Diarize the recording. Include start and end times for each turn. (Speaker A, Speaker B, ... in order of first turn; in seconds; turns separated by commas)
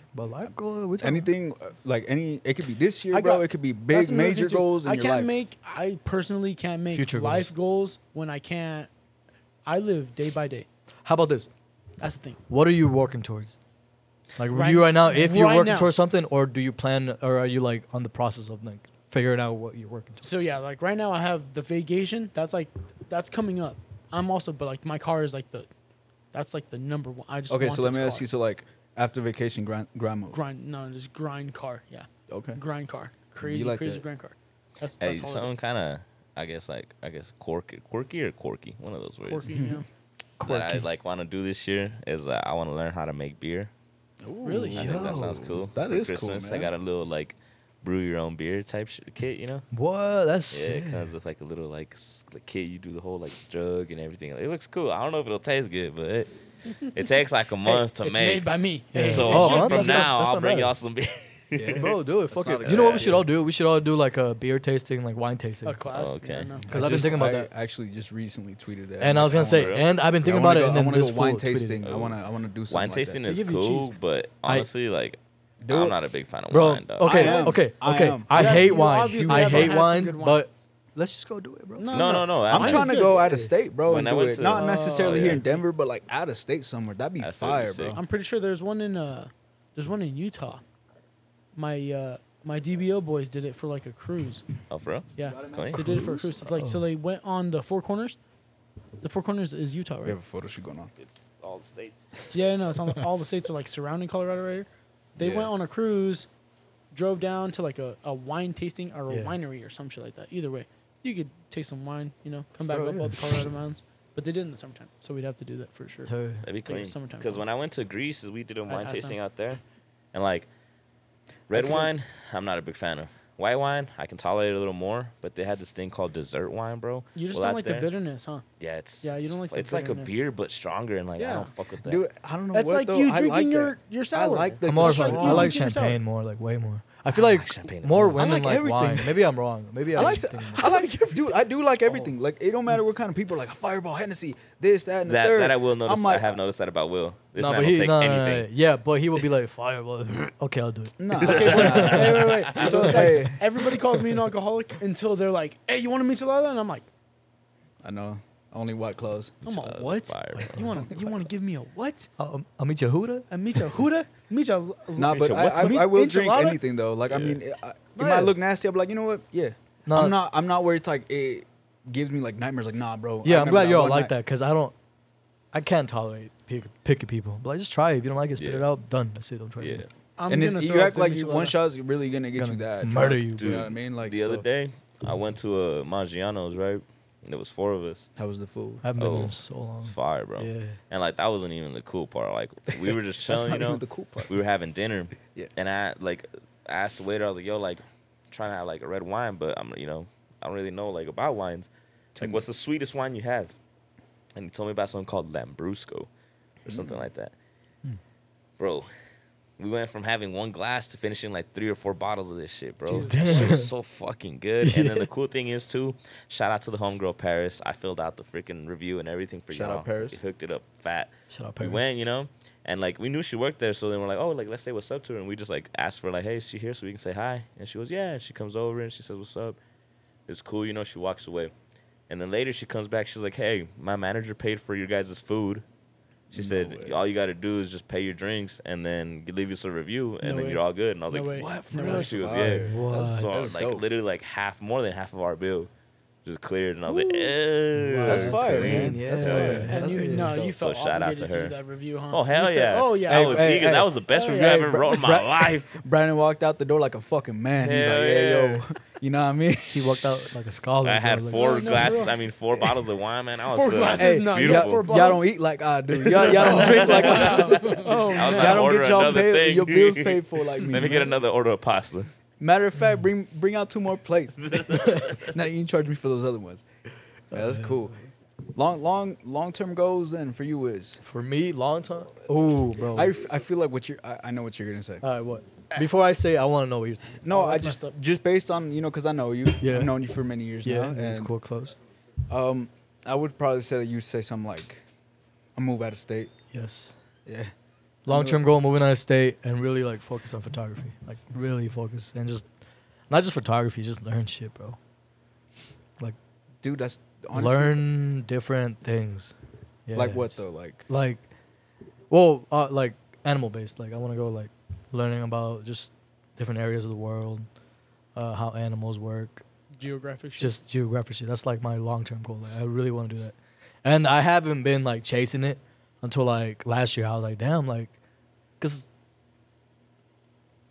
Speaker A: 0.1-1.3, Speaker B: 1.0-5.3, Speaker C: 3.1-8.9, Speaker A: 6.9-7.5, Speaker C: 9.7-10.7, Speaker A: 11.1-11.5, Speaker C: 12.0-12.4, Speaker A: 12.5-13.6, Speaker A: 14.4-20.5, Speaker C: 14.5-15.9, Speaker C: 20.2-25.7, Speaker C: 26.3-28.3, Speaker B: 27.5-30.4, Speaker C: 30.3-35.6, Speaker B: 32.3-32.6, Speaker B: 33.4-34.0, Speaker D: 35.0-39.5, Speaker C: 39.2-39.9, Speaker B: 39.5-39.8, Speaker A: 40.4-40.9, Speaker D: 40.4-43.7, Speaker B: 44.2-46.7, Speaker C: 44.4-44.9, Speaker D: 44.8-49.7, Speaker A: 44.8-45.5, Speaker A: 49.7-51.1, Speaker D: 50.5-56.3, Speaker D: 56.9-62.0, Speaker C: 57.6-60.1, Speaker A: 58.9-60.7, Speaker B: 61.5-63.3, Speaker A: 61.8-65.8, Speaker D: 62.6-63.2, Speaker C: 65.7-67.0, Speaker D: 65.9-66.5, Speaker B: 66.6-73.2, Speaker A: 66.7-67.5, Speaker A: 69.0-71.9, Speaker D: 69.4-69.9, Speaker D: 71.8-72.2, Speaker D: 72.7-77.3, Speaker C: 73.3-73.9, Speaker B: 75.6-76.0, Speaker A: 76.5-83.5, Speaker B: 77.0-79.8, Speaker C: 77.1-77.6, Speaker C: 78.3-80.4, Speaker C: 81.8-83.3, Speaker D: 81.9-82.9, Speaker B: 82.5-88.0, Speaker D: 83.9-85.4, Speaker C: 84.4-85.6, Speaker D: 87.2-88.0, Speaker C: 87.9-90.6, Speaker C: 91.5-94.5, Speaker D: 94.7-95.8, Speaker C: 95.2-98.2, Speaker B: 95.2-96.2, Speaker A: 95.8-96.9, Speaker C: 99.0-100.2, Speaker B: 100.0-100.9, Speaker D: 101.0-102.0, Speaker C: 102.3-106.3, Speaker D: 105.2-105.5, Speaker C: 106.9-116.1, Speaker A: 109.1-109.4, Speaker A: 112.7-113.5, Speaker A: 116.1-116.5, Speaker D: 116.4-119.6, Speaker C: 116.6-117.4, Speaker C: 118.7-119.2, Speaker D: 120.1-120.5, Speaker D: 121.5-127.9, Speaker B: 121.5-121.9, Speaker C: 127.2-128.4, Speaker D: 128.6-132.0, Speaker C: 129.0-130.2, Speaker C: 131.2-131.5, Speaker B: 131.8-135.6, Speaker C: 132.5-136.0, Speaker A: 134.6-141.0, Speaker D: 137.1-138.2, Speaker B: 138.1-139.3, Speaker B: 139.9-146.4, Speaker C: 140.0-141.2, Speaker D: 145.1-148.5, Speaker A: 147.4-153.2, Speaker B: 151.0-153.4, Speaker C: 151.2-156.9, Speaker D: 151.3-152.6, Speaker B: 157.8-159.4, Speaker D: 159.4-160.6, Speaker C: 159.4-162.1, Speaker A: 160.3-160.9, Speaker B: 160.9-161.2, Speaker A: 162.2-163.3, Speaker C: 163.3-166.6, Speaker B: 164.9-174.1, Speaker D: 165.2-165.7, Speaker A: 165.2-165.6, Speaker D: 167.1-167.4, Speaker A: 168.0-168.4, Speaker A: 169.9-170.2, Speaker A: 173.2-174.7, Speaker A: 175.5-179.8, Speaker D: 178.4-178.7, Speaker D: 179.6-179.9, Speaker C: 180.2-181.6, Speaker B: 180.3-184.5, Speaker A: 182.3-183.7, Speaker D: 183.4-188.1, Speaker B: 188.2-188.9, Speaker A: 188.8-190.8, Speaker D: 189.0-203.5, Speaker B: 193.3-194.4, Speaker B: 195.2-195.5, Speaker B: 202.2-202.4, Speaker D: 204.3-206.1, Speaker D: 206.7-207.3, Speaker B: 206.7-207.0, Speaker D: 208.6-208.9, Speaker D: 209.6-229.6, Speaker A: 212.9-213.7, Speaker C: 212.9-213.5, Speaker A: 214.6-215.1, Speaker B: 219.5-220.2, Speaker A: 221.3-221.9, Speaker D: 230.3-231.5, Speaker D: 232.1-235.6, Speaker D: 236.3-245.7, Speaker B: 236.3-237.0, Speaker C: 240.2-242.2, Speaker B: 241.4-243.9, Speaker A: 242.6-243.6, Speaker D: 246.2-249.7, Speaker A: 247.8-250.3, Speaker B: 248.1-250.5, Speaker C: 249.7-254.6, Speaker D: 250.4-251.5, Speaker D: 252.1-255.8, Speaker B: 253.1-260.0, Speaker D: 257.6-258.6, Speaker A: 259.7-262.0, Speaker D: 260.8-265.0, Speaker C: 261.3-262.1, Speaker C: 263.5-265.3, Speaker B: 263.9-271.2, Speaker C: 265.9-268.7, Speaker D: 266.2-272.1, Speaker B: 272.4-276.6, Speaker D: 274.4-275.2, Speaker B: 277.3-278.0, Speaker A: 277.4-277.8, Speaker B: 278.6-281.0, Speaker A: 281.0-283.2, Speaker B: 282.9-285.0, Speaker A: 285.0-287.2, Speaker B: 287.2-291.3, Speaker C: 287.3-287.9, Speaker A: 289.6-290.1, Speaker A: 290.6-291.8, Speaker B: 292.3-294.8, Speaker B: 295.6-296.3, Speaker A: 296.5-297.0, Speaker B: 297.3-297.5, Speaker B: 298.1-298.4, Speaker A: 298.1-302.5, Speaker A: 303.1-304.8, Speaker B: 306.6-307.9, Speaker A: 307.3-309.4, Speaker A: 309.9-311.2, Speaker B: 309.9-310.9, Speaker A: 312.1-317.5, Speaker A: 318.1-319.4, Speaker C: 319.8-320.5, Speaker A: 320.4-327.9, Speaker A: 328.6-328.9